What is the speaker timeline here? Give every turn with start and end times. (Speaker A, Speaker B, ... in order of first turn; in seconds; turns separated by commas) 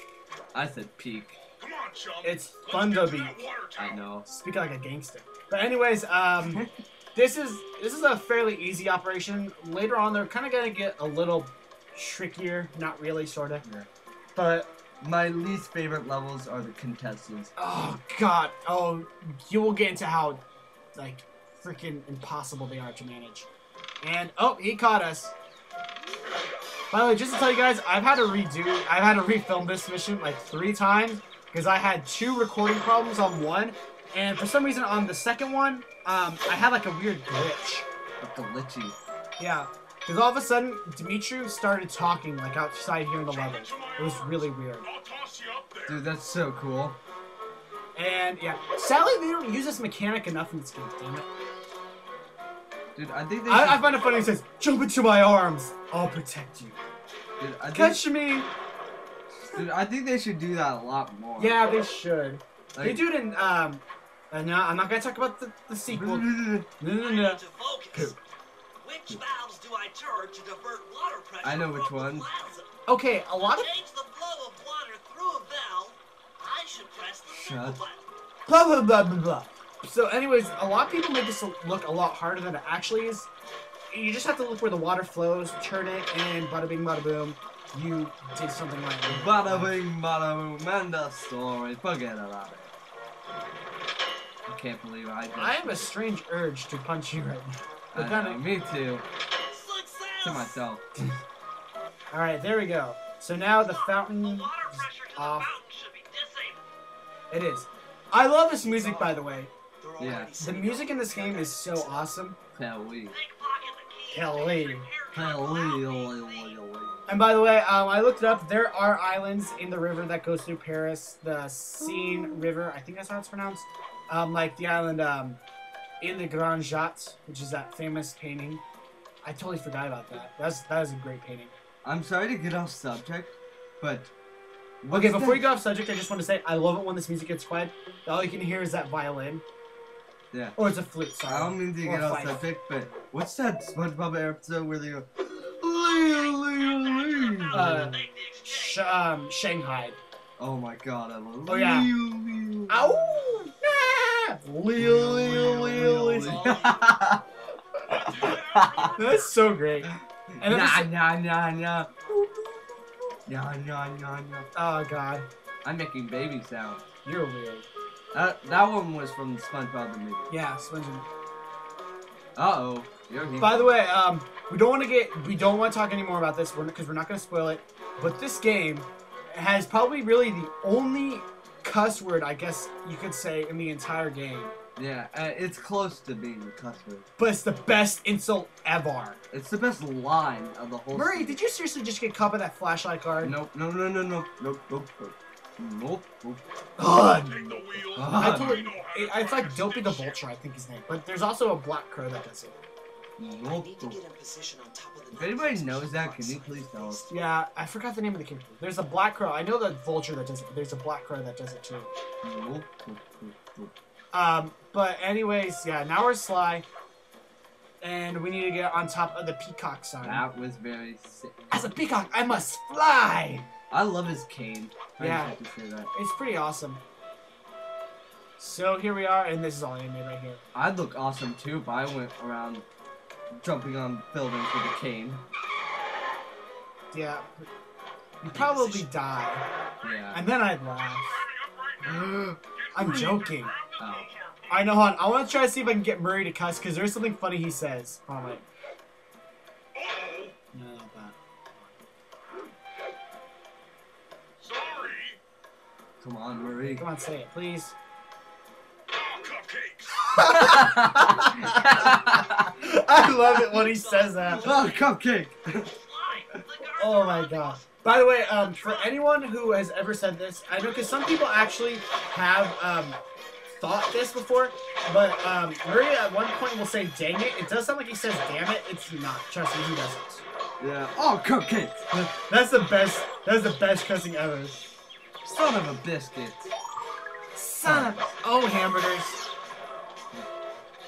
Speaker A: 0.5-1.4, Speaker B: 1.6-4.0, Speaker C: 2.2-3.4, Speaker A: 3.8-4.3, Speaker C: 4.3-6.6, Speaker A: 6.4-6.7, Speaker C: 7.1-13.6, Speaker A: 13.6-13.9, Speaker C: 14.3-14.7, Speaker A: 15.0-17.5, Speaker C: 17.6-20.4, Speaker C: 20.9-23.5, Speaker C: 24.0-25.3, Speaker C: 26.9-37.9, Speaker A: 38.2-39.0, Speaker C: 39.4-44.9, Speaker B: 43.3-46.0, Speaker A: 45.9-47.0, Speaker C: 47.9-51.3, Speaker A: 52.9-53.9, Speaker C: 53.5-56.8, Speaker A: 57.4-58.0, Speaker C: 57.7-58.5, Speaker A: 59.4-61.6, Speaker C: 61.4-67.4, Speaker A: 62.7-63.0, Speaker A: 65.9-66.7, Speaker D: 66.9-68.2, Speaker D: 68.8-72.7, Speaker A: 71.4-72.3, Speaker C: 72.9-73.7, Speaker D: 73.4-78.0, Speaker A: 77.3-77.8, Speaker C: 78.5-83.3, Speaker C: 83.9-89.8, Speaker A: 89.1-92.7, Speaker A: 94.5-95.9, Speaker C: 95.3-98.4, Speaker A: 97.9-99.0, Speaker D: 99.5-100.6, Speaker A: 100.2-100.8, Speaker C: 102.1-105.6, Speaker D: 103.6-106.6, Speaker C: 107.3-109.5, Speaker D: 108.6-109.3, Speaker D: 109.8-112.0, Speaker A: 110.0-110.3, Speaker C: 110.4-112.4, Speaker A: 112.5-113.2, Speaker D: 113.1-116.5, Speaker C: 114.1-114.8, Speaker A: 115.1-117.1, Speaker C: 117.1-125.4, Speaker A: 121.8-122.5, Speaker C: 126.0-128.6, Speaker C: 129.2-131.5, Speaker A: 131.8-134.1, Speaker A: 134.8-135.4, Speaker C: 134.9-139.4, Speaker A: 140.3-140.6, Speaker C: 140.6-142.4, Speaker A: 141.2-147.9, Speaker D: 145.7-148.8, Speaker C: 147.5-150.0, Speaker A: 150.4-153.1, Speaker C: 151.5-151.9, Speaker C: 152.7-156.7, Speaker A: 154.7-157.2, Speaker D: 156.2-157.0, Speaker A: 157.9-159.0, Speaker C: 157.9-158.3, Speaker B: 157.9-159.2, Speaker C: 158.9-160.9, Speaker A: 159.8-162.6, Speaker A: 163.2-164.5, Speaker C: 164.5-165.3, Speaker A: 165.6-166.8, Speaker C: 167.0-167.7, Speaker A: 168.1-170.3, Speaker C: 170.3-171.1, Speaker A: 172.3-173.7, Speaker C: 173.4-184.5, Speaker A: 184.8-187.1, Speaker C: 187.2-189.2, Speaker A: 189.3-191.4, Speaker C: 190.9-193.3, Speaker A: 193.2-196.4, Speaker C: 196.8-197.6, Speaker B: 197.2-200.2, Speaker A: 197.8-198.6, Speaker C: 198.1-202.6, Speaker A: 203.2-204.0, Speaker D: 203.3-207.1, Speaker A: 205.1-207.1, Speaker C: 207.1-211.9, Speaker A: 212.2-213.7, Speaker C: 214.1-216.7, Speaker C: 217.8-220.3, Speaker A: 220.0-221.4, Speaker C: 221.5-223.5, Speaker A: 223.7-225.9, Speaker C: 225.0-225.4, Speaker C: 225.9-226.8, Speaker C: 228.4-230.4, Speaker A: 230.5-232.7, Speaker A: 233.4-235.2, Speaker C: 236.9-237.4, Speaker C: 238.2-239.4, Speaker D: 238.5-238.9, Speaker A: 239.8-240.2, Speaker C: 240.1-241.2, Speaker B: 241.2-244.3, Speaker A: 241.8-242.3, Speaker C: 242.7-243.5, Speaker A: 243.8-244.1, Speaker C: 244.5-248.4, Speaker B: 249.7-250.3, Speaker C: 250.5-251.7, Speaker B: 254.4-255.2, Speaker A: 256.0-256.9, Speaker C: 256.7-257.7, Speaker B: 258.9-260.1, Speaker A: 260.1-262.5, Speaker C: 260.1-264.6, Speaker D: 263.5-264.8, Speaker A: 264.3-265.7, Speaker D: 265.6-269.0, Speaker C: 266.8-280.2, Speaker A: 280.6-282.0, Speaker C: 282.3-284.6, Speaker A: 285.2-286.5, Speaker C: 287.3-289.2, Speaker A: 287.6-288.1